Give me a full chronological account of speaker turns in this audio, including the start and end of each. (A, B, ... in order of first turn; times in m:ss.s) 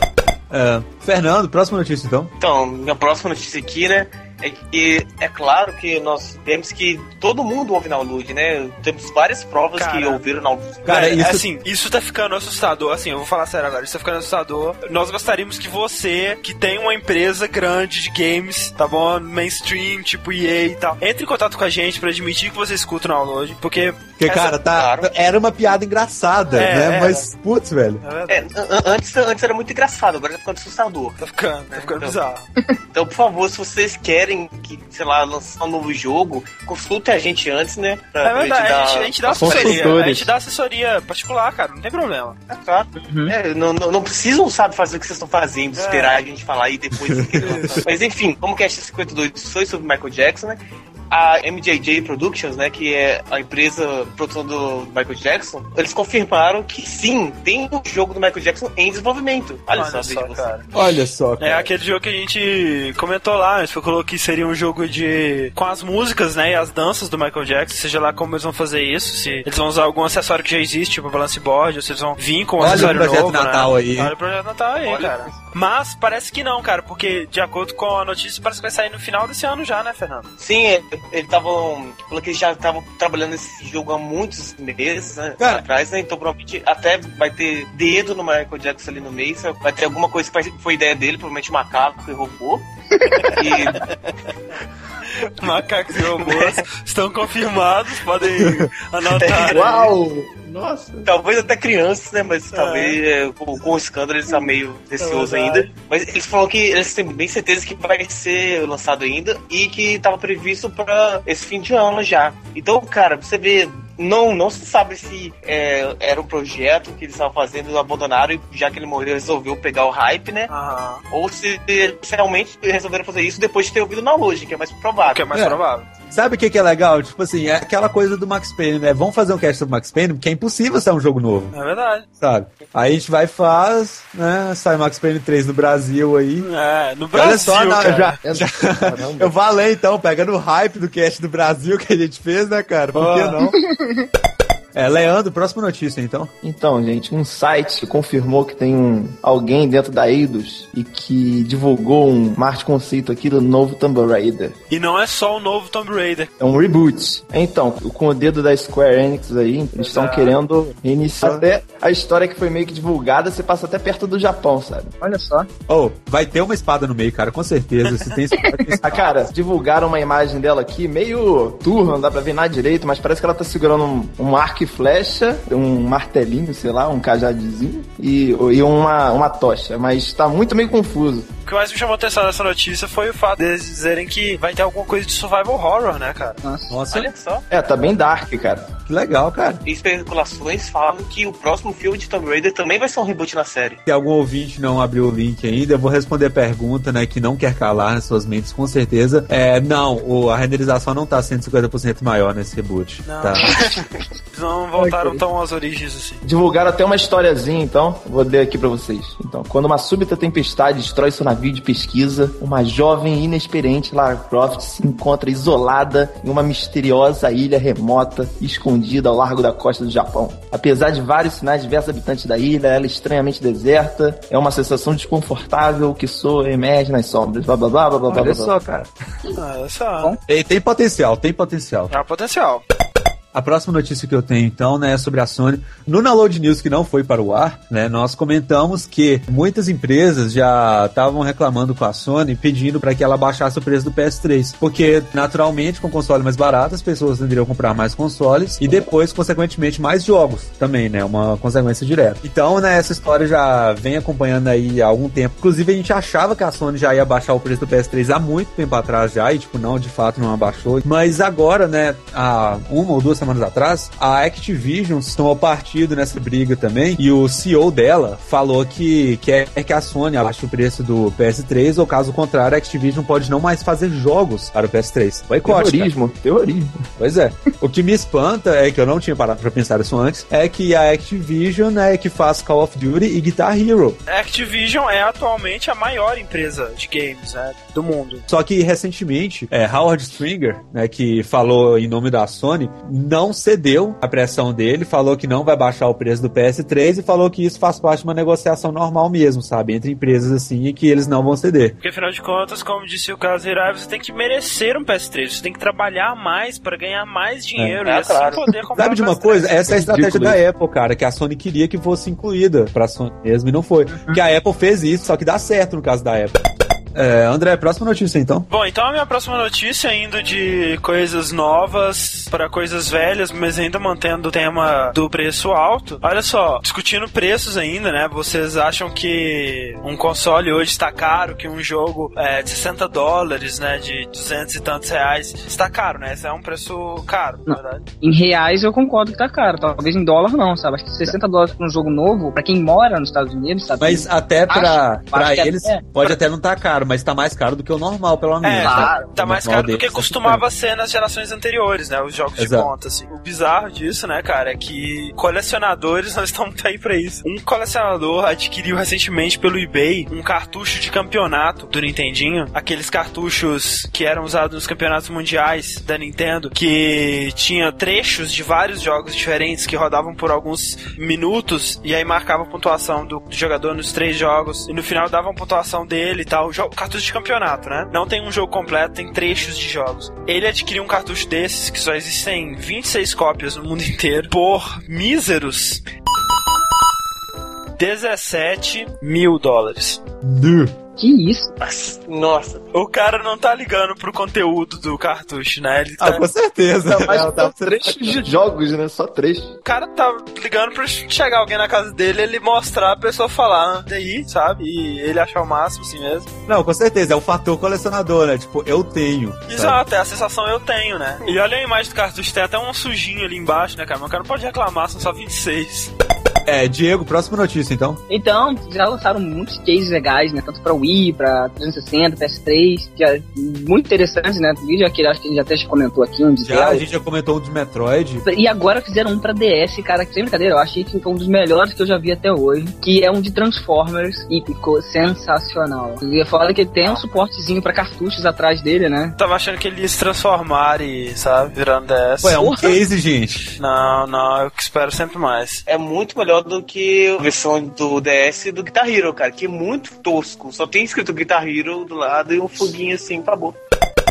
0:00.5-0:02.3 A
0:02.4-0:10.9 B
0:09.8-0:10.2 C
0:10.8-0:24.5 C
0:10.9-0:11.4 A
0:24.2-0:28.0 A
0:24.6-0:25.1 B
0:26.5-0:27.3 C
0:28.0-0:28.4 C
0:28.3-0:31.2 B
0:31.2-0:32.5 C
0:31.7-0:32.2 B
0:32.9-0:40.0 B
0:38.2-0:42.4 C
0:39.3-0:40.3 D
0:42.5-1:00.5 B
0:43.0-0:43.3 E
0:45.8-0:46.2 C
0:47.1-0:47.8 A
0:59.7-1:00.7 C
1:00.7-1:01.7 A
1:01.4-1:20.3 C
1:12.6-1:14.1 A
1:14.8-1:15.3 B
1:20.4-1:32.7 B
1:33.0-1:33.3 E
1:33.3-1:33.9 B
1:35.3-1:39.9 C
1:36.2-1:36.6 B
1:38.4-1:38.7 A
1:39.2-1:39.6 B
1:39.4-1:41.1 D
1:41.1-2:00.5 B
1:42.5-1:43.0 C
1:45.0-1:45.7 C
2:00.5-2:01.0 C
2:01.1-2:05.3 B
2:05.1-2:05.9 C
2:06.1-2:11.6 A
2:11.5-2:12.1 C
2:12.2-2:16.5 A
2:16.4-2:18.2 C
2:17.1-2:23.6 A
2:18.2-2:19.3 D
2:23.0-2:23.4 D
2:23.4-2:24.0 E
2:24.8-2:26.3 A
2:26.4-2:34.6 D
2:34.7-2:36.3 C
2:36.4-2:44.9 D
2:39.8-2:40.4 C
2:41.2-2:41.4 A
2:45.0-2:45.5 E
2:45.7-2:49.1 A
2:48.4-2:48.8 E
2:48.9-3:01.3 D
3:01.4-3:06.4 C
3:06.4-3:06.7 E
3:06.7-3:07.1 A
3:06.9-3:07.4 B
3:07.5-3:08.8 D
3:08.9-3:09.6 A
3:09.6-3:13.8 B
3:13.9-3:23.6 A
3:23.1-3:26.2 C
3:24.8-3:25.2 E
3:26.2-3:48.8 D
3:48.1-3:48.4 E
3:48.1-3:48.9 A
3:49.3-3:50.1 C
3:50.3-3:51.9 A
3:51.9-3:52.6 C
3:53.3-4:35.9 A
4:35.4-4:36.8 D
4:37.0-4:44.0 A
4:44.1-4:48.3 C
4:48.3-5:01.8 A
5:01.8-5:09.6 C
5:07.8-5:08.4 B
5:08.8-5:16.4 A
5:09.7-5:10.4 D
5:13.9-5:14.2 E
5:16.9-5:18.5 A
5:18.5-5:37.8 C
5:37.5-5:45.8 E
5:43.8-5:50.4 A
5:48.4-6:25.8 C
5:48.6-5:49.1 E
5:52.4-5:52.7 A
6:27.8-6:30.0 C
6:30.2-6:30.8 A
6:31.0-6:31.5 E
6:31.6-6:32.6 B
6:32.7-6:36.2 C
6:36.0-6:38.2 A
6:36.9-6:39.6 D
6:39.6-6:46.3 C
6:46.5-6:49.8 A
6:49.5-6:55.9 C
6:56.5-6:58.0 A
6:58.1-7:06.8 E
7:06.4-7:08.2 A
7:08.2-7:19.2 E
7:19.2-7:22.4 C
7:22.2-7:23.5 A
7:22.4-7:22.7 E
7:23.5-7:25.6 C
7:25.7-7:33.6 B